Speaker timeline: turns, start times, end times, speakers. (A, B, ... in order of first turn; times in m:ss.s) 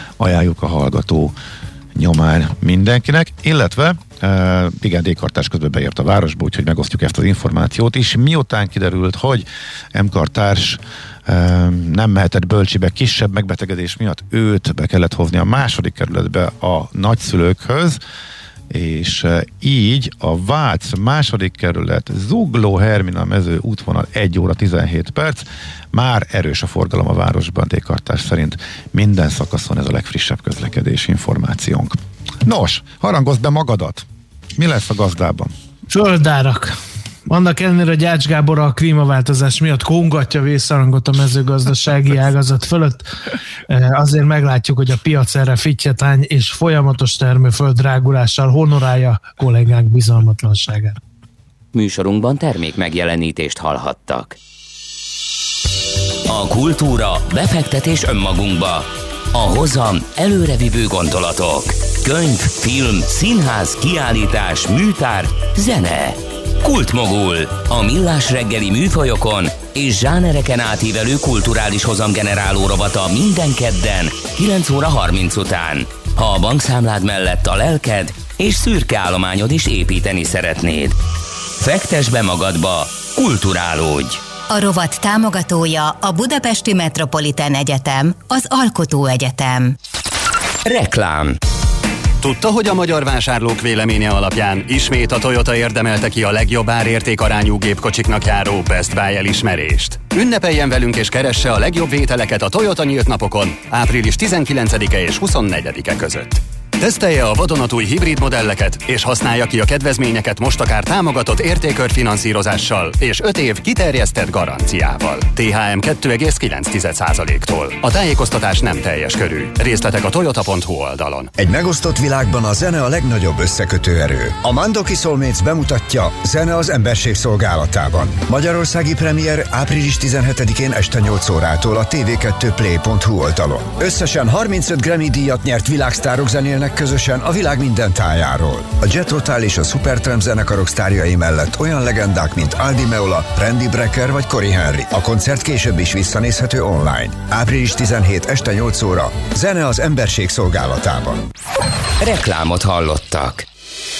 0:00.2-0:01.4 A
0:02.0-0:18.0 A
0:18.7-0:35.5 A
0:35.9-0:36.8 B
0:37.3-0:43.1 B
0:43.7-0:51.0 B
0:51.7-0:54.4 C
0:56.3-1:21.0 C
1:21.6-1:24.2 C
1:24.5-1:29.8 D
1:30.6-1:31.4 C
1:32.2-2:01.3 E
2:01.4-2:31.3 F
2:32.0-2:33.5 C